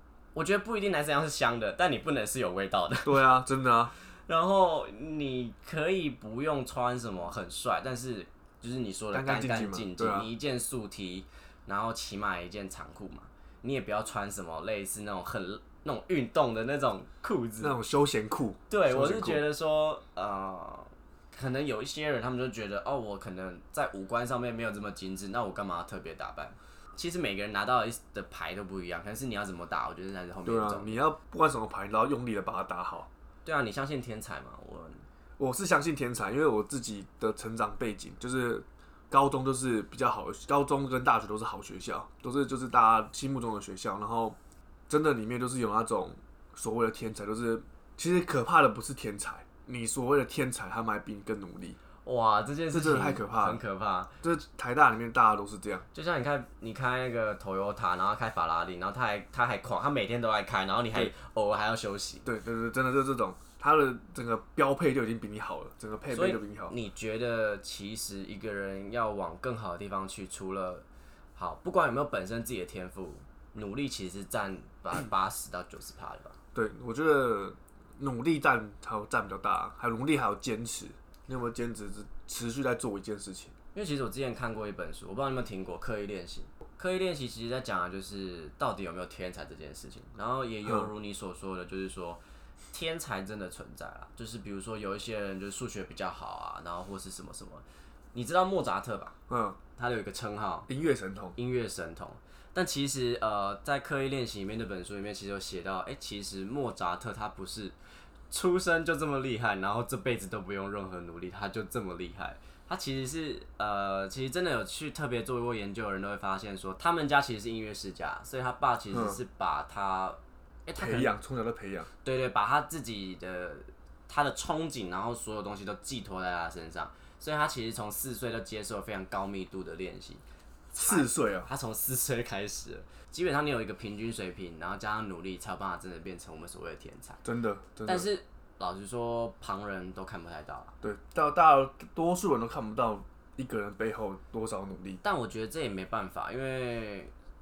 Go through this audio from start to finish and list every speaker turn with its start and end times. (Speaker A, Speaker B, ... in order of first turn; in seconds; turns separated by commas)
Speaker A: 0.3-3.4, Speaker B: 3.0-3.9, Speaker A: 4.0-17.7, Speaker B: 9.1-10.3, Speaker B: 17.6-19.4, Speaker A: 18.7-31.0, Speaker B: 30.4-33.1, Speaker A: 33.4-35.0, Speaker B: 35.4-44.4, Speaker B: 44.9-51.8, Speaker A: 52.0-54.1, Speaker B: 52.7-53.6, Speaker B: 54.2-55.9, Speaker A: 55.9-62.3, Speaker B: 62.2-66.7, Speaker A: 66.1-70.8, Speaker A: 71.3-76.3, Speaker B: 76.5-83.5, Speaker A: 83.7-92.2, Speaker A: 92.7-99.2, Speaker B: 99.3-99.6, Speaker A: 99.8-100.7, Speaker B: 100.7-101.3, Speaker A: 101.3-107.8, Speaker A: 108.3-121.1, Speaker B: 118.9-119.2, Speaker B: 120.8-121.9, Speaker A: 122.0-137.2, Speaker B: 130.8-131.5, Speaker B: 137.2-138.1, Speaker A: 137.8-140.7, Speaker B: 140.8-145.0, Speaker A: 145.0-147.1